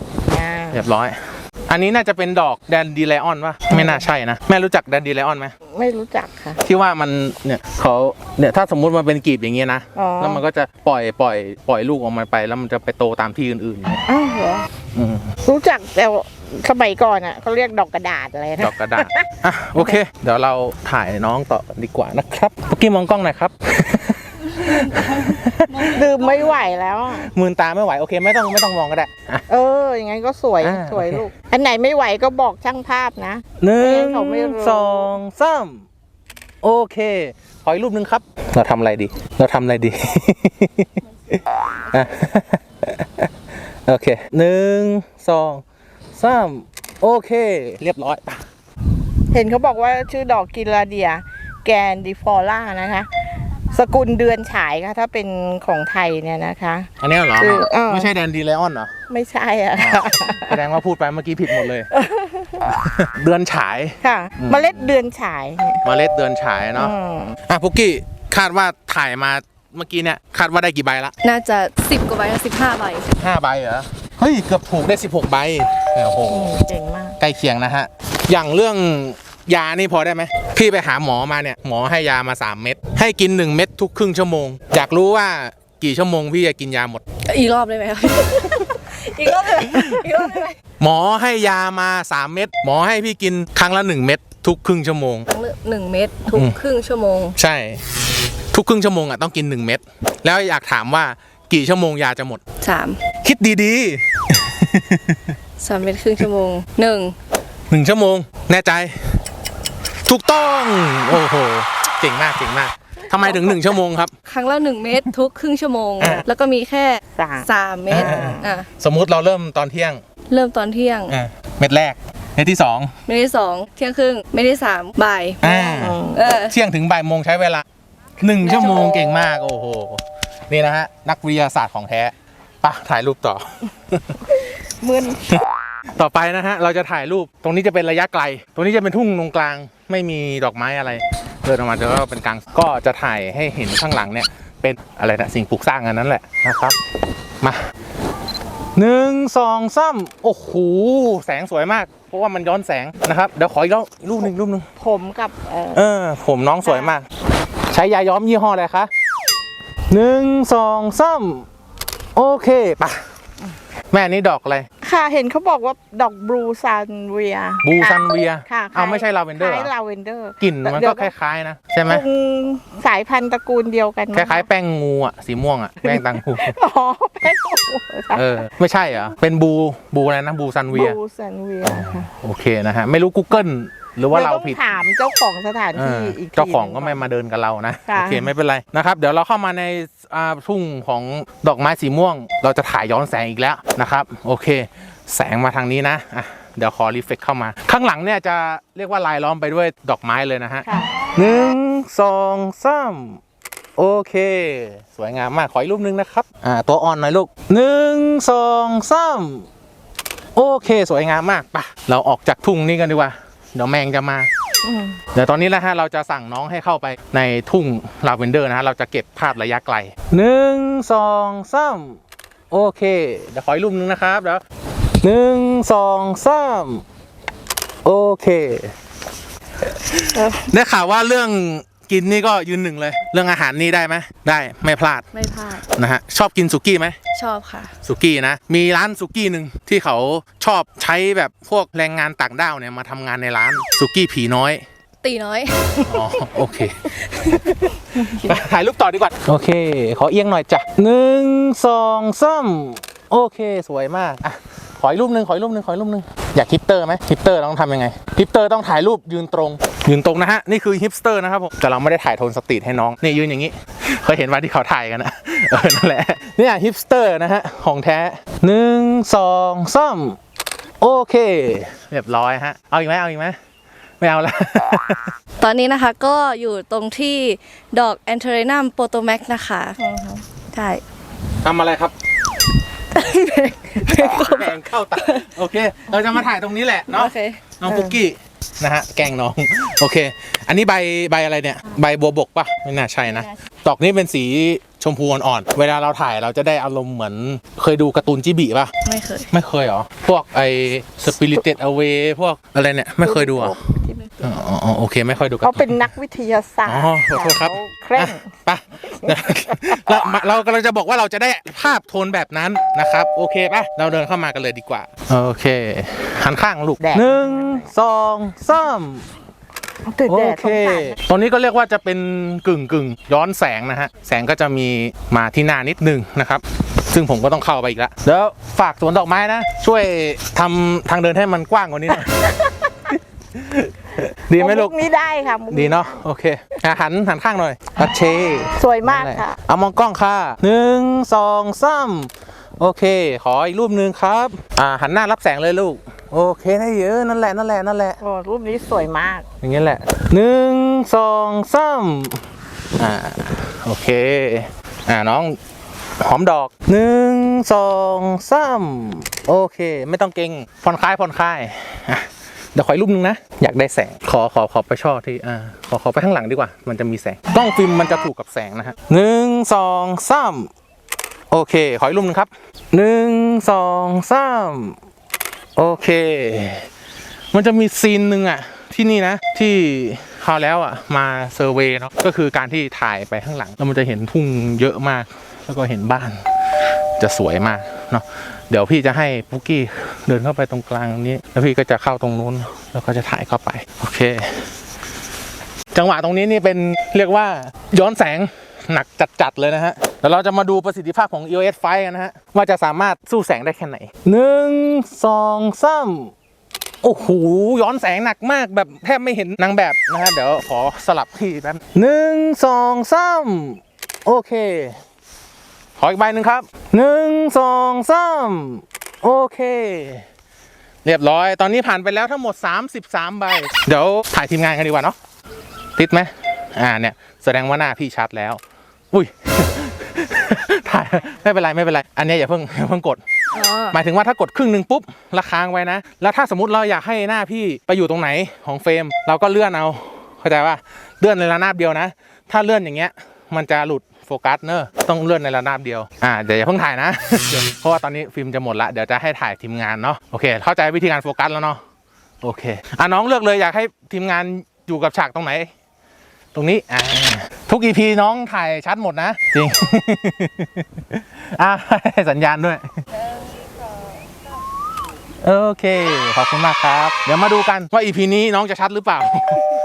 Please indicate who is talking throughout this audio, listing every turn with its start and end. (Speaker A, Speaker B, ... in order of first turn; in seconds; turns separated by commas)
Speaker A: 0.3-0.8, Speaker B: 0.7-5.5, Speaker A: 3.7-4.0, Speaker A: 5.7-6.6, Speaker B: 6.6-14.0, Speaker A: 9.9-10.4, Speaker A: 14.1-14.7, Speaker B: 14.9-15.3, Speaker A: 15.4-19.3, Speaker B: 18.6-26.1, Speaker C: 24.9-25.2, Speaker C: 25.7-26.6, Speaker A: 25.9-27.3, Speaker B: 27.1-29.4, Speaker A: 29.5-35.1, Speaker B: 30.6-31.3, Speaker B: 33.6-35.9, Speaker B: 36.6-41.0, Speaker B: 41.9-43.3, Speaker B: 43.9-48.4, Speaker A: 49.3-53.1, Speaker A: 53.7-58.1, Speaker B: 57.0-58.9, Speaker A: 59.1-60.6, Speaker B: 59.8-61.9, Speaker A: 61.9-62.7, Speaker B: 62.7-64.9, Speaker A: 64.0-65.8, Speaker B: 65.8-66.9, Speaker A: 66.8-67.4, Speaker B: 67.5-71.1, Speaker C: 71.2-73.1, Speaker B: 73.2-76.5, Speaker A: 76.3-77.2, Speaker B: 77.2-87.0, Speaker C: 87.3-90.6, Speaker B: 89.5-90.0, Speaker B: 90.8-95.3, Speaker C: 95.3-97.4, Speaker B: 96.3-96.6, Speaker B: 97.4-97.8, Speaker B: 98.5-102.4, Speaker C: 102.6-103.0, Speaker B: 103.2-105.3, Speaker C: 105.6-107.2, Speaker B: 107.7-109.2, Speaker B: 110.1-114.1, Speaker A: 113.1-113.6, Speaker C: 114.3-118.7, Speaker A: 117.2-118.5, Speaker B: 117.9-120.0, Speaker C: 120.3-121.2, Speaker B: 121.1-122.9, Speaker C: 123.1-126.5, Speaker B: 125.4-127.6, Speaker A: 125.5-126.3, Speaker B: 128.2-134.2, Speaker C: 128.4-129.1, Speaker A: 134.7-135.2, Speaker B: 136.0-146.8, Speaker B: 148.8-154.7, Speaker A: 154.8-155.8, Speaker B: 155.8-157.1, Speaker A: 156.6-156.9, Speaker B: 157.7-158.9, Speaker B: 159.9-161.5, Speaker B: 162.2-163.1, Speaker B: 163.9-164.7, Speaker A: 164.8-171.1, Speaker B: 167.6-169.7, Speaker B: 170.4-172.0, Speaker A: 171.9-174.5, Speaker B: 174.1-176.6, Speaker A: 175.8-178.5, Speaker B: 178.1-181.0, Speaker A: 180.7-182.1, Speaker B: 181.6-184.6, Speaker A: 184.1-187.1, Speaker B: 185.8-203.2, Speaker A: 187.9-188.3, Speaker A: 200.7-200.9, Speaker B: 203.8-209.5, Speaker B: 210.3-214.3, Speaker A: 214.6-215.0, Speaker B: 215.1-222.0, Speaker B: 222.5-224.4, Speaker B: 225.0-226.8, Speaker B: 227.8-228.7, Speaker B: 229.7-235.1, Speaker A: 230.2-230.5, Speaker C: 235.1-235.6, Speaker B: 235.7-237.0, Speaker C: 237.1-237.7, Speaker B: 237.8-244.6, Speaker C: 245.0-245.8, Speaker B: 245.8-270.2, Speaker C: 246.8-247.7, Speaker B: 270.8-273.4, Speaker B: 274.0-275.1, Speaker C: 275.4-279.8, Speaker A: 279.8-280.2, Speaker C: 280.5-280.8, Speaker B: 281.4-281.9, Speaker C: 282.9-285.3, Speaker B: 283.9-298.7, Speaker C: 286.9-287.4, Speaker A: 287.7-287.9, Speaker C: 298.9-299.3, Speaker B: 299.3-303.6, Speaker A: 303.0-304.0, Speaker B: 304.2-305.9, Speaker A: 305.4-308.3, Speaker B: 306.7-319.1, Speaker A: 309.0-309.9, Speaker A: 316.8-317.7, Speaker A: 319.9-321.0, Speaker B: 320.1-332.3, Speaker A: 331.9-332.7, Speaker B: 332.9-334.7, Speaker A: 334.4-336.0, Speaker B: 335.5-348.0, Speaker A: 338.6-339.4, Speaker A: 348.0-349.2, Speaker B: 349.4-352.2, Speaker B: 352.8-355.4, Speaker B: 356.0-370.5, Speaker B: 371.3-374.8, Speaker B: 375.6-376.7, Speaker B: 377.3-386.2, Speaker B: 387.0-394.5, Speaker B: 395.7-406.1, Speaker B: 406.8-414.8, Speaker B: 415.8-420.1, Speaker B: 420.9-425.0, Speaker B: 425.8-428.4, Speaker B: 428.9-433.0, Speaker C: 433.3-433.8, Speaker B: 433.7-451.6, Speaker B: 452.2-455.5, Speaker B: 456.3-462.7, Speaker B: 465.2-469.5